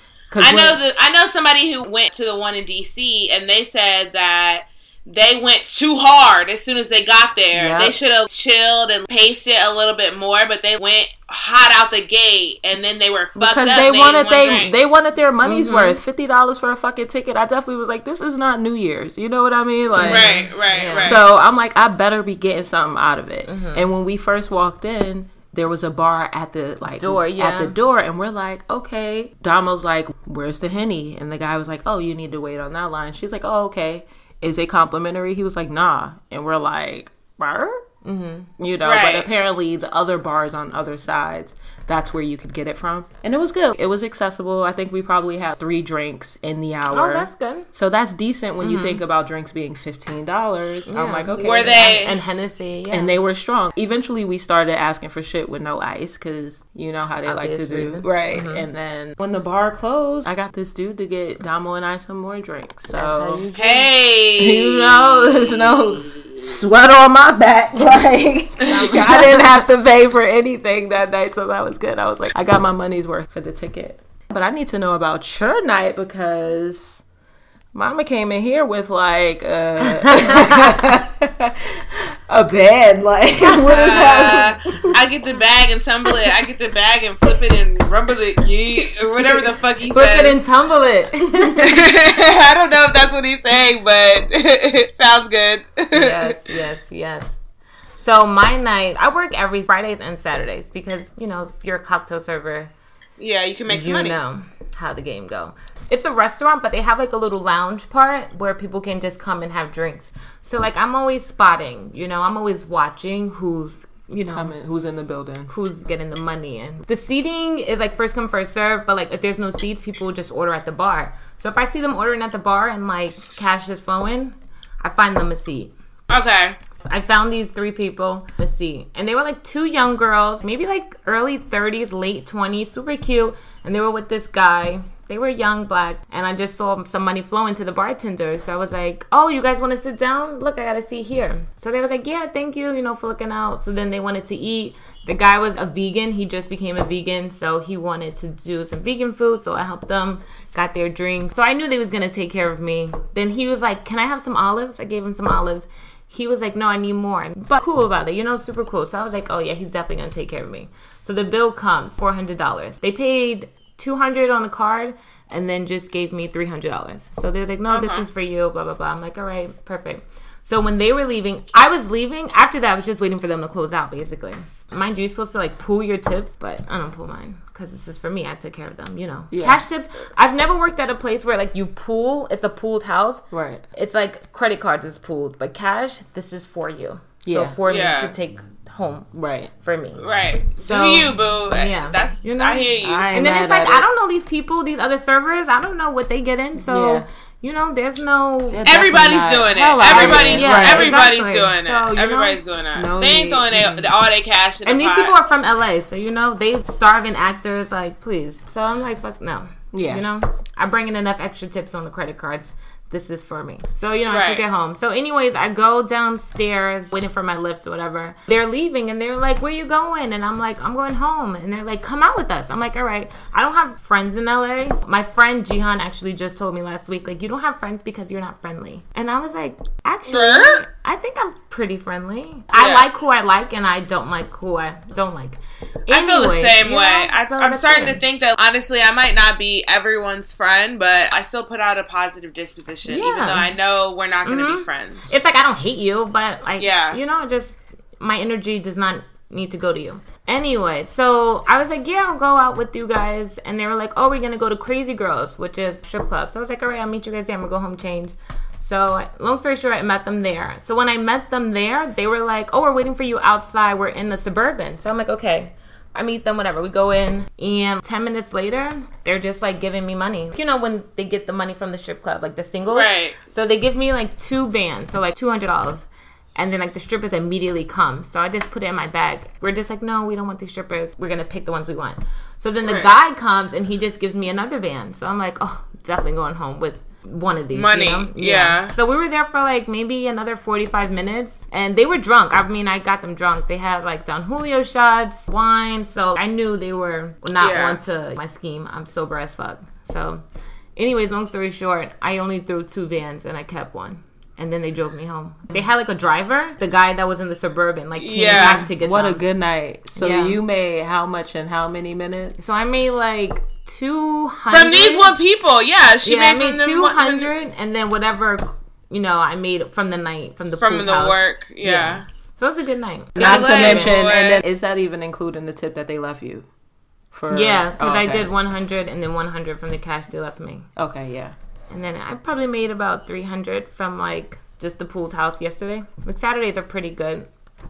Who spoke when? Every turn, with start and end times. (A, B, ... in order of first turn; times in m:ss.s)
0:00.3-0:00.8 A
0:00.4-0:14.7 B
0:07.5-0:08.0 A
0:13.4-0:20.5 A
0:15.4-0:16.0 C
0:20.0-0:21.2 C
0:20.0-0:21.2 B
0:21.0-0:37.8 A
0:23.5-0:23.9 C
0:27.0-0:27.8 C
0:38.0-0:38.5 C
0:38.6-0:51.8 A
0:38.8-0:39.3 B
0:46.9-0:47.7 C
0:48.6-0:49.0 C
0:50.9-0:53.1 C
0:51.4-0:52.2 B
0:52.9-1:03.5 A
0:57.2-0:58.6 C
1:02.9-1:03.8 C
1:03.5-1:04.9 B
1:04.4-1:17.0 A
1:08.7-1:09.4 C
1:17.7-1:25.0 A
1:20.0-1:20.6 C
1:23.7-1:30.4 B
1:29.9-1:31.7 C
1:31.6-1:36.5 B
1:35.9-1:37.3 C
1:38.0-1:42.7 C
1:43.2-1:44.2 B
1:43.7-1:54.6 C
1:54.2-1:55.5 A
1:55.5-2:05.7 C
2:06.1-2:06.6 B
2:06.9-3:10.0 C
2:47.7-2:48.0 B
2:59.3-2:59.6 A
3:03.3-3:03.6 A
3:07.2-3:07.6 A
3:07.7-3:08.1 B
3:09.1-3:09.5 A
3:10.0-3:13.1 B
3:10.6-3:18.6 C
3:12.8-3:13.9 A
3:16.5-3:17.1 A
3:18.5-3:21.1 A
3:18.6-3:25.1 B
3:19.5-3:22.4 C
3:22.7-3:23.8 A
3:23.5-3:23.8 C
3:24.6-3:58.0 C
3:29.7-3:30.0 A
3:34.1-3:34.4 B
3:50.0-3:50.6 B
3:52.5-3:52.8 B
3:55.9-4:05.2 B
4:02.8-4:03.5 C
4:04.2-5:00.2 C
4:06.6-4:07.0 B
4:32.7-4:33.2 B
4:42.6-4:42.9 B
4:47.5-4:48.7 B
4:57.4-4:57.8 B
5:00.8-5:09.2 C
5:08.0-5:08.6 B
5:08.3-5:12.4 A
5:10.0-5:10.4 C
5:12.4-5:15.2 C
5:14.5-5:17.3 B
5:16.0-5:24.0 C
5:20.6-5:22.0 B
5:23.2-5:24.4 B
5:23.2-5:26.5 A
5:27.1-5:28.3 A
5:27.3-5:30.7 C
5:30.8-5:31.3 A
5:31.7-5:37.3 C